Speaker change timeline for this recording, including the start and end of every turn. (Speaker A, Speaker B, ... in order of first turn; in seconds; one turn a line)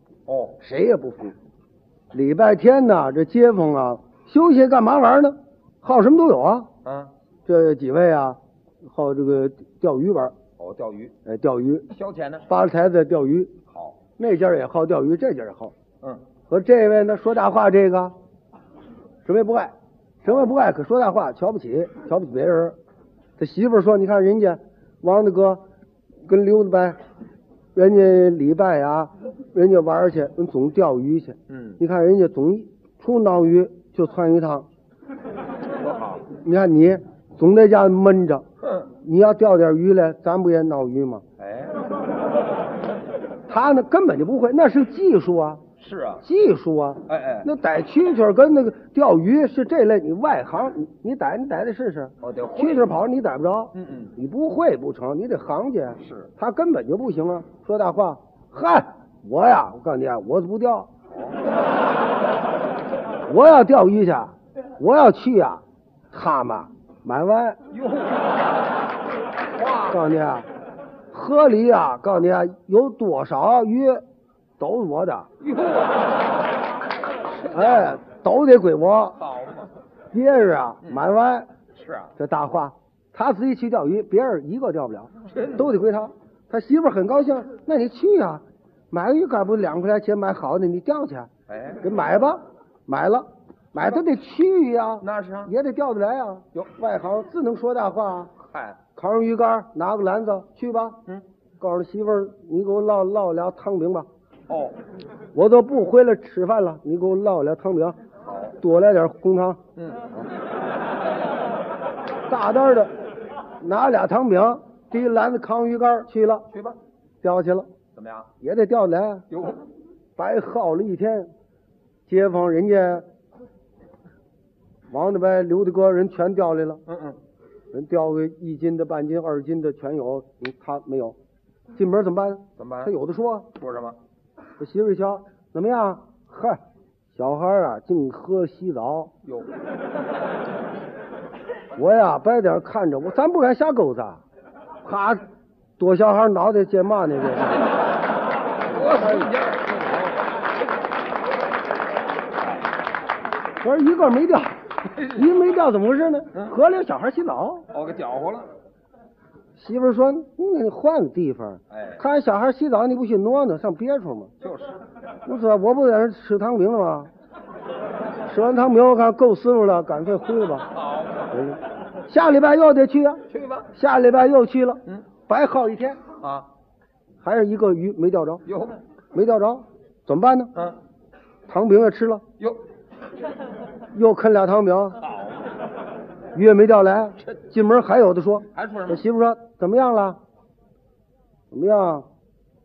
Speaker A: 0.3-0.6
Speaker B: 0.6-1.4
Speaker B: 2.1-6.7
Speaker A: 6.8-7.1
Speaker B: 7.5-10.3
Speaker A: 10.6-11.1
Speaker B: 11.2-11.9
Speaker A: 11.9-12.5
Speaker B: 12.5-13.5
Speaker A: 13.7-14.0
Speaker B: 14.2-15.7
Speaker B: 16.5-18.1
Speaker B: 19.2-22.8
Speaker B: 23.4-25.6
Speaker B: 26.2-27.0
Speaker B: 27.7-34.7
Speaker A: 31.5-31.8
Speaker A: 35.7-36.3
Speaker B: 36.3-38.4
Speaker B: 39.0-41.2
Speaker A: 41.4-41.8
Speaker B: 43.5-45.6
Speaker A: 45.8-46.2
Speaker B: 46.2-60.9
Speaker A: 47.1-47.5
Speaker A: 52.2-53.0
Speaker A: 53.7-54.1
Speaker A: 56.0-56.3
Speaker A: 61.1-61.4
Speaker B: 63.3-67.6
Speaker A: 67.7-68.4
Speaker A: 69.5-70.0
Speaker B: 69.8-70.5
Speaker B: 71.1-74.0
Speaker B: 74.6-75.3
Speaker A: 75.4-76.3
Speaker A: 77.1-78.0
Speaker B: 77.5-79.2
Speaker A: 79.2-79.7
Speaker B: 80.1-81.5
Speaker A: 81.7-82.1
Speaker B: 82.2-91.3
Speaker A: 85.2-85.7
Speaker A: 91.5-91.8
Speaker B: 91.8-98.3
Speaker A: 95.0-95.5
Speaker A: 98.4-98.8
Speaker B: 98.9-101.0
Speaker B: 101.6-104.1
Speaker A: 104.5-104.8
Speaker B: 105.3-108.0
Speaker A: 108.2-108.6
Speaker B: 108.6-109.6
Speaker A: 109.8-110.1
Speaker B: 112.3-112.9
Speaker B: 113.6-116.5
Speaker A: 116.5-116.8
Speaker B: 117.2-117.7
Speaker A: 117.9-118.3
Speaker B: 118.4-119.2
Speaker A: 119.3-119.6
Speaker B: 120.2-121.3
Speaker B: 122.1-123.0
Speaker B: 124.9-126.8
Speaker A: 126.9-127.2
Speaker B: 127.7-131.2
Speaker B: 131.7-133.5
Speaker A: 132.6-132.9
Speaker A: 133.6-134.0
Speaker B: 134.6-136.6
Speaker B: 137.1-139.1
Speaker A: 139.2-139.5
Speaker B: 141.7-144.2
Speaker B: 144.8-145.2
Speaker B: 145.8-147.7
Speaker A: 148.6-150.2
Speaker B: 148.7-149.3
Speaker B: 153.6-157.7
Speaker A: 154.9-155.3
Speaker A: 157.7-158.5
Speaker B: 159.6-164.3
Speaker A: 161.7-162.0
Speaker A: 164.4-164.8
Speaker B: 165.2-167.1
Speaker B: 168.2-170.7
Speaker A: 170.7-171.3
Speaker B: 171.3-176.0
Speaker A: 173.3-173.7
Speaker A: 176.2-176.5
Speaker B: 177.2-178.4
Speaker A: 178.4-178.8
Speaker B: 179.1-180.5
Speaker B: 181.5-182.2
Speaker B: 183.9-185.0
Speaker A: 185.0-185.4
Speaker B: 186.3-190.2
Speaker A: 188.5-189.0
Speaker B: 191.5-192.1